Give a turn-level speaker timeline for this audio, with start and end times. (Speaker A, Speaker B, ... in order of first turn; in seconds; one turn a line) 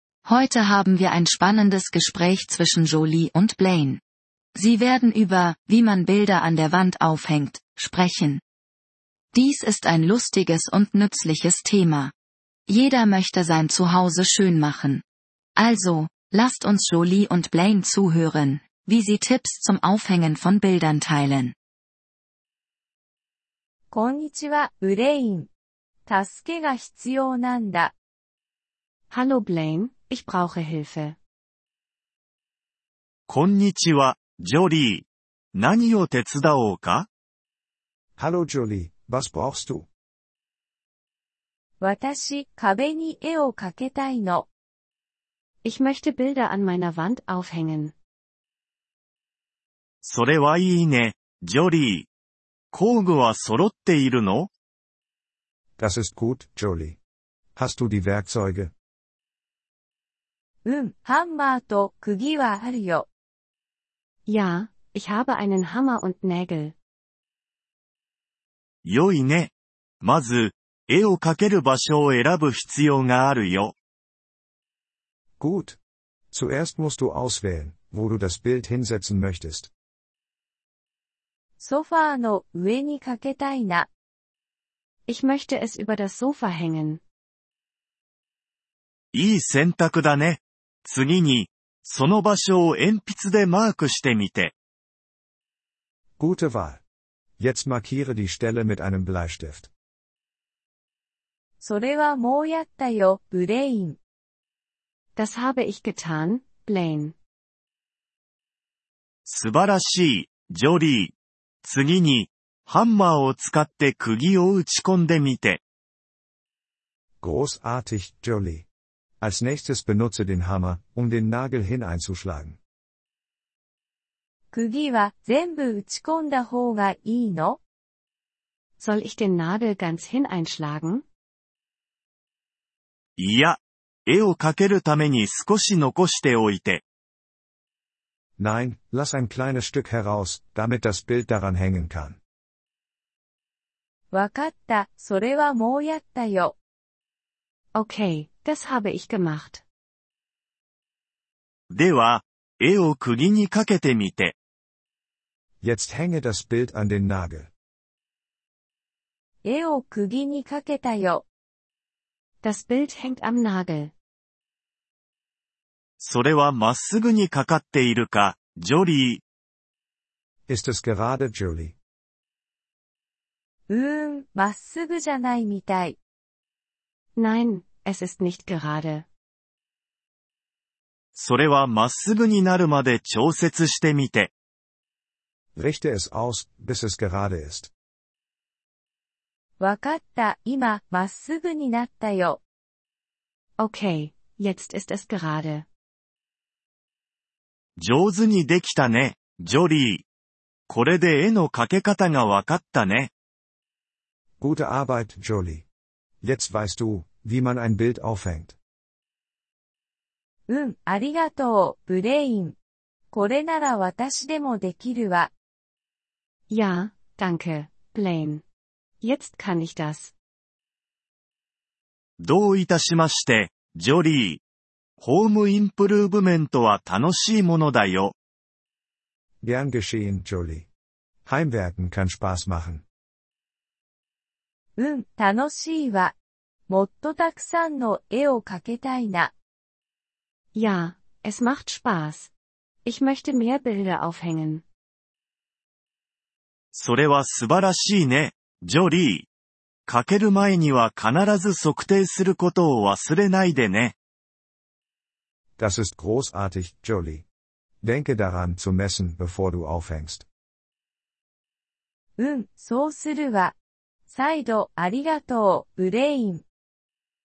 Speaker A: 0.2-4.0
Speaker A: 4.5-8.4
Speaker A: 9.3-12.1
Speaker A: 12.7-15.0
Speaker A: 15.6-21.5
Speaker B: 23.9-25.5
Speaker B: 26.1-27.9
Speaker C: 29.1-31.1
Speaker D: 33.3-37.1
Speaker E: 38.2-39.9
Speaker B: 41.8-44.5
Speaker C: 45.6-47.9
Speaker D: 50.0-52.1
Speaker D: 52.7-54.5
Speaker E: 55.8-57.0
Speaker E: 57.5-58.7
Speaker B: 60.6-63.1
Speaker C: 64.3-66.7
Speaker D: 68.8-73.7
Speaker E: 75.4-75.8
Speaker E: 76.3-79.7
Speaker B: 81.6-83.9
Speaker C: 85.1-87.0
Speaker D: 89.1-94.5
Speaker E: 96.2-96.8
Speaker E: 97.4-99.7
Speaker B: 101.6-104.0
Speaker C: 105.2-107.1
Speaker D: 109.2-115.6
Speaker E: 117.2-118.7
Speaker E: 119.2-122.6
Speaker B: 124.5-127.6
Speaker C: 128.8-131.0
Speaker D: 133.2-136.8
Speaker E: 138.4-142.2
Speaker B: 144.1-146.5
Speaker C: 147.7-149.6
Speaker D: 151.7-154.3
Speaker E: 155.6-157.5
Speaker B: 159.4-161.2
Speaker C: 162.4-163.9
Speaker D: 166.0-169.2
Speaker E: 170.5-171.8
Speaker B: 173.7-176.0
Speaker C: 177.2-179.1
Speaker D: 181.1-184.3
Speaker E: 185.6-187.7
Speaker B: 189.6-192.4
Speaker C: 193.6-195.7
Speaker D: 197.8-200.0
Speaker D: 200.7-203.1
Speaker E: 204.4-205.7
Speaker E: 206.2-208.6
Speaker B: 210.5-212.6
Speaker B: 213.1-215.3
Speaker C: 216.5-218.4
Speaker C: 219.0-220.1
Speaker D: 222.2-224.4
Speaker D: 225.0-228.1
Speaker E: 229.4-230.7
Speaker E: 231.2-232.8
Speaker B: 234.8-236.1
Speaker B: 236.7-239.3
Speaker C: 240.5-242.3
Speaker C: 242.8-244.6
Speaker D: 246.7-249.3
Speaker D: 249.9-253.9
Speaker E: 255.6-257.2
Speaker E: 257.8-260.2
Speaker B: 262.2-263.5
Speaker B: 264.1-266.4